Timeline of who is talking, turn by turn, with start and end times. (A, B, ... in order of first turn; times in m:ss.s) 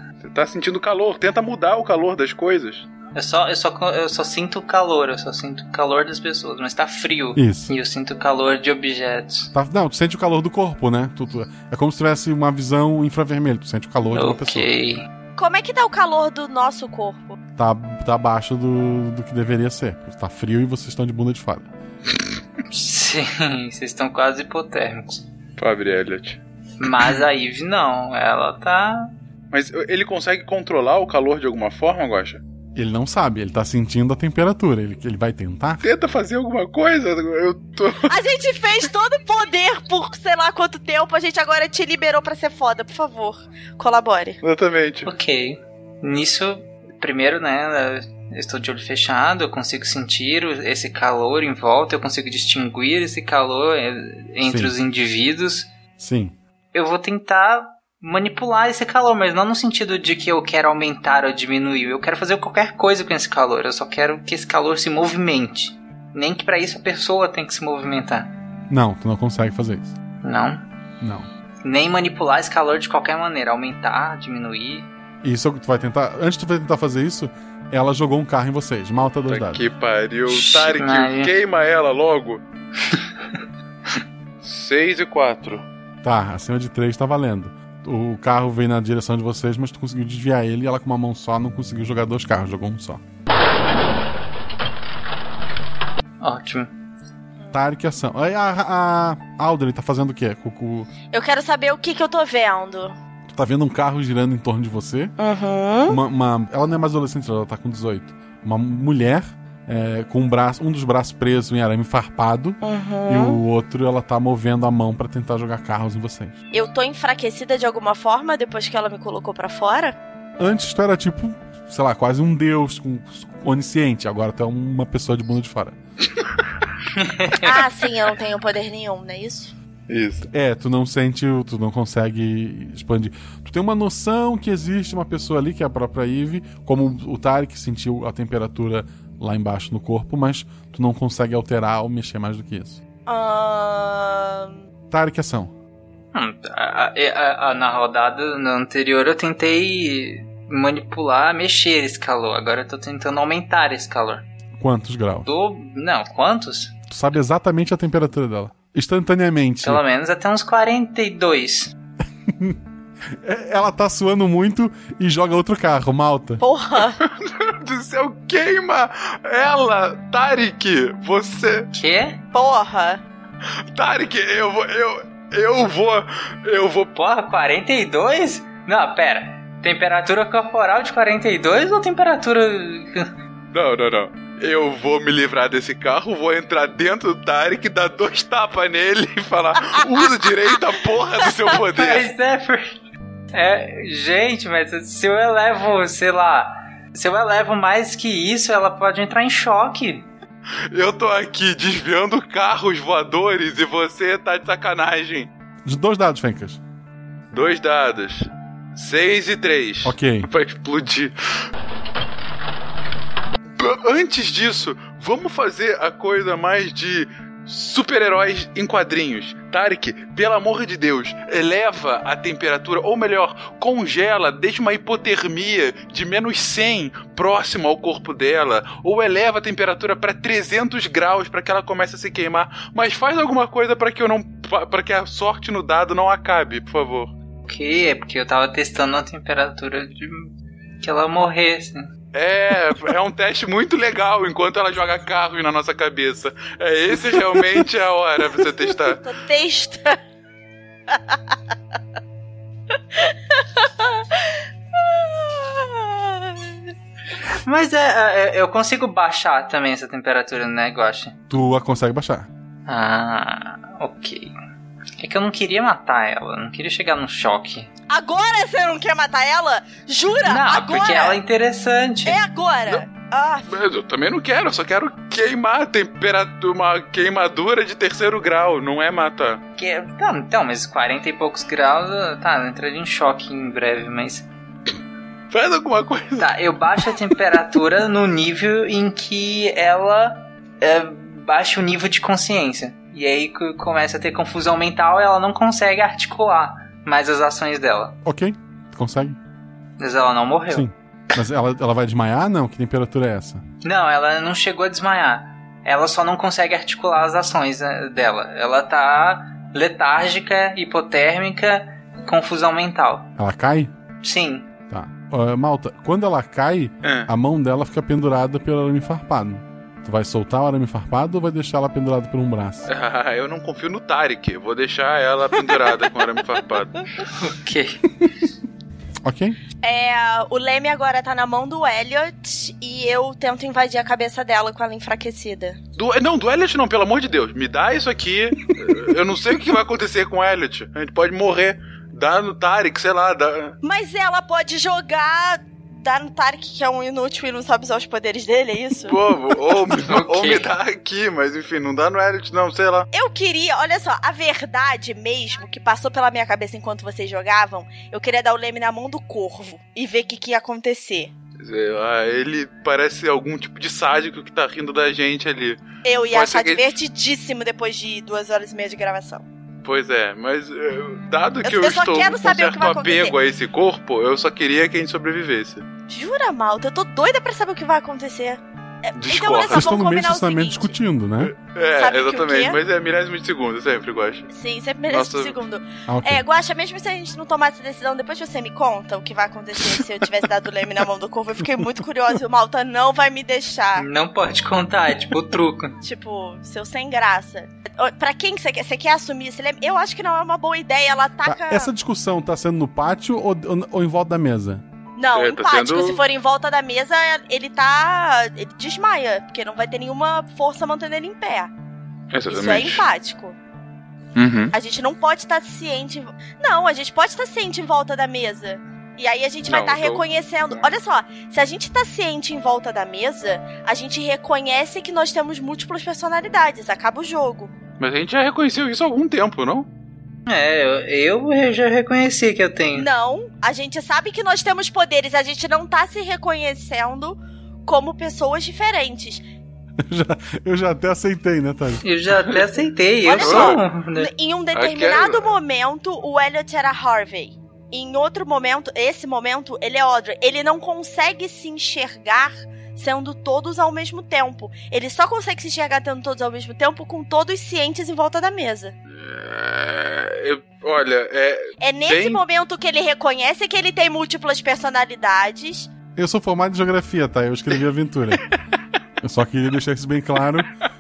0:00.2-0:02.9 A
0:03.2-0:09.5 B
0:07.4-0:07.7 C
0:09.5-0:14.7 C
0:14.1-0:15.0 B
0:15.4-0:17.4 D
0:17.6-0:21.7 C
0:22.7-0:25.2 B
0:25.6-0:26.4 A
0:26.8-0:29.1 B
0:29.5-0:32.4 A
0:32.8-0:35.8 C
0:35.8-0:38.1 A
0:38.1-0:44.4 D
0:44.4-0:45.1 A
0:45.1-0:55.7 B
0:54.4-0:54.7 C
0:56.0-0:56.4 C
0:56.7-1:08.3 B
1:08.7-1:09.9 C
1:10.2-1:10.6 B
1:11.0-1:11.3 C
1:11.6-1:14.8 B
1:15.2-1:19.6 C
1:19.3-1:22.4 A
1:20.3-1:21.3 B
1:24.4-1:25.6 A
1:26.0-1:33.0 C
1:36.2-1:36.7 B
1:37.5-1:40.9 C
1:41.1-1:43.0 D
1:43.3-1:45.1 C
1:45.2-1:46.0 D
1:45.9-1:56.4 C
1:52.6-1:53.4 D
1:56.5-2:00.0 D
2:00.4-2:05.8 C
2:07.4-2:09.5 D
2:09.9-2:10.3 A
2:10.3-2:22.8 C
2:23.1-2:24.6 D
2:24.9-2:25.5 C
2:26.1-2:34.2 B
2:34.6-2:35.3 C
2:35.3-2:36.7 B
2:36.9-2:39.8 C
2:39.6-2:41.7 B
2:42.3-2:42.6 C
2:43.2-2:46.4 C
2:46.4-2:47.0 D
2:47.0-2:51.7 A
2:51.7-2:52.2 B
2:52.3-2:53.0 D
2:53.7-2:56.9 A
2:57.0-3:03.1 B
3:03.5-3:12.1 A
3:11.8-3:12.8 B
3:13.3-3:20.0 B
3:20.7-3:25.3 A
3:25.6-3:26.6 C
3:27.3-3:31.1 A
3:29.8-3:30.3 C
3:33.6-3:57.1 A
3:57.5-4:00.3 B
4:00.8-4:01.9 B
4:02.1-4:09.0 A
4:09.0-4:10.0 D
4:10.9-4:11.2 D
4:13.0-4:16.5 D
4:17.4-4:21.1 B
4:21.3-4:22.3 C
4:22.7-4:24.3 B
4:25.0-4:27.7 B
4:27.9-4:31.2 D
4:30.3-4:32.2 B
4:32.0-4:33.5 D
4:33.5-4:39.4 A
4:39.6-4:44.2 B
4:45.3-4:46.3 A
4:46.2-4:57.9 B
4:58.0-4:59.2 C
4:59.8-5:00.7 B
5:00.5-5:03.4 C
5:03.6-5:13.1 B
5:13.2-5:13.7 C
5:14.0-5:14.4 B
5:14.7-5:22.7 C
5:16.8-5:17.1 A
5:22.7-5:26.8 A
5:27.2-5:27.8 B
5:29.0-5:29.4 C
5:29.6-5:35.6 D
5:35.8-5:43.6 A
5:43.6-5:49.0 D
5:48.9-5:52.9 A
5:49.8-5:50.5 B
5:52.9-6:01.1 D
6:01.4-6:06.7 A
6:05.8-6:09.2 D
6:09.6-6:15.6 A
6:11.4-6:13.2 D
6:15.9-6:20.8 D
6:18.9-6:19.7 A
6:19.5-6:21.3 C
6:21.2-6:24.3 A
6:21.7-6:22.6 D
6:24.3-6:33.9 D
6:24.9-6:25.4 A
6:25.9-6:26.2 C
6:33.8-6:35.7 B
6:35.8-6:41.7 D
6:41.2-6:44.6 C
6:45.0-6:51.5 D
6:45.1-6:46.0 A
6:52.1-6:52.8 A
6:52.3-6:53.4 D
6:54.2-6:54.5 A
6:54.5-7:07.5 D
6:59.5-7:00.7 A
7:07.8-7:09.7 A
7:10.3-7:12.9 B
7:12.8-7:19.2 D
7:19.8-7:21.8 C
7:21.8-7:24.1 B
7:23.0-7:38.8 D
7:23.2-7:23.6 A
7:24.5-7:25.4 A
7:39.0-7:42.2 A
7:41.6-7:45.7 D
7:46.0-7:48.2 C
7:49.0-7:50.5 C